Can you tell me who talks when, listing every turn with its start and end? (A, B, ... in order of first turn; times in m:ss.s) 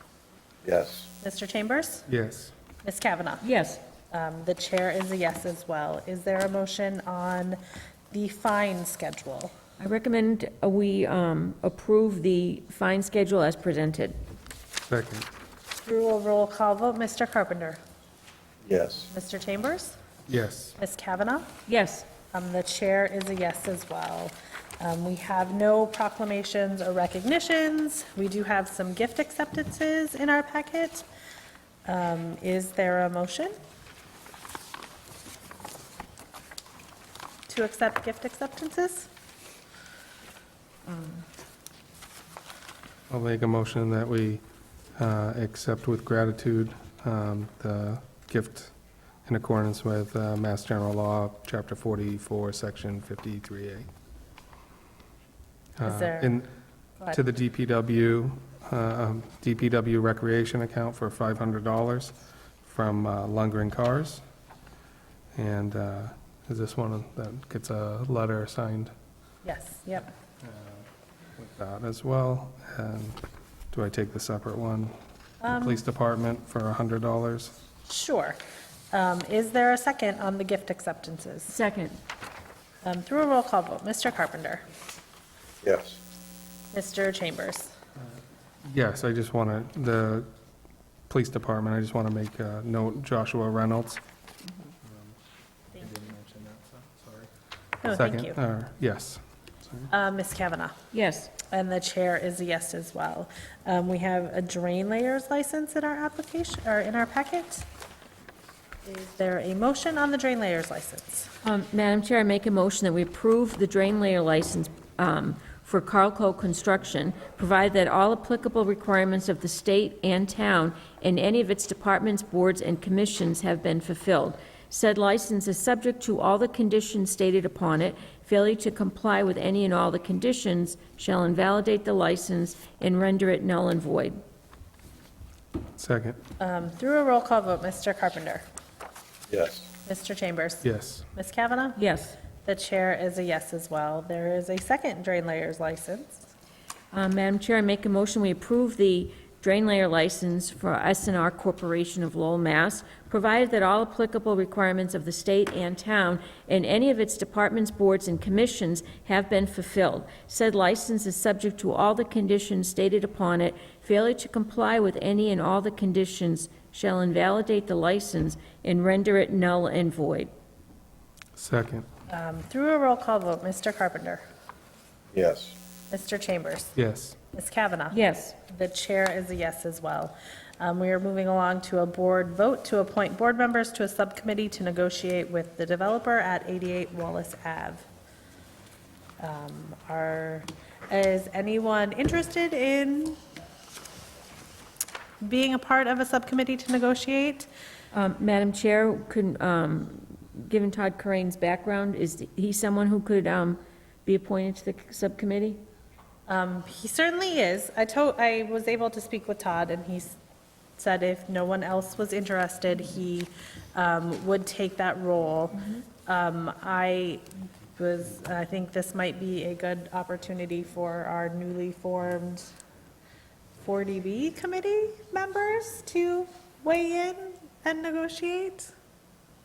0:00.6-0:01.1 A
0:01.2-0:02.0 B
0:02.1-0:02.5 C
0:02.8-0:03.4 B
0:03.4-0:03.8 D
0:04.1-0:07.6 B
0:08.1-0:09.5 B
0:09.8-0:14.2 D
0:14.9-0:15.2 C
0:15.8-0:17.8 B
0:18.6-0:19.1 A
0:19.1-0:20.0 B
0:20.3-0:20.8 C
0:20.8-0:21.5 B
0:21.7-0:22.1 D
0:22.3-0:31.0 B
0:31.8-0:33.5 B
0:37.5-0:39.1 B
0:43.1-0:44.4 C
0:45.0-0:48.7 C
0:49.2-0:53.9 C
0:55.8-0:56.5 C
0:55.8-0:56.3 B
0:57.1-1:04.2 C
1:05.3-1:08.9 C
1:09.4-1:10.1 B
1:10.4-1:10.7 C
1:11.4-1:14.9 C
1:15.4-1:15.8 B
1:15.5-1:17.5 C
1:17.9-1:18.4 B
1:18.9-1:21.5 B
1:21.5-1:22.0 D
1:22.8-1:24.6 B
1:25.6-1:26.0 A
1:26.7-1:27.7 B
1:28.6-1:30.3 C
1:31.1-1:34.0 C
1:35.7-1:37.2 C
1:37.8-1:38.4 B
1:37.8-1:39.9 C
1:39.9-1:40.8 B
1:40.9-1:41.3 D
1:41.5-1:47.6 B
1:48.8-1:51.3 B
1:51.4-2:14.2 D
2:15.8-2:16.2 C
2:16.4-2:18.4 B
2:19.3-2:19.7 A
2:19.8-2:21.8 B
2:20.6-2:21.1 C
2:21.8-2:22.2 D
2:22.4-2:26.3 B
2:26.9-2:50.3 D
2:51.4-2:51.9 C
2:52.1-2:54.2 B
2:55.1-2:55.5 A
2:55.9-2:56.7 B
2:56.8-2:57.2 C
2:57.3-3:07.8 B
2:57.9-2:58.3 D
3:09.2-3:13.2 B
3:15.2-3:17.5 B
3:17.9-3:25.6 D
3:26.3-3:30.2 B
3:30.8-3:37.2 B
3:37.8-3:42.5 B
3:43.6-3:48.7 B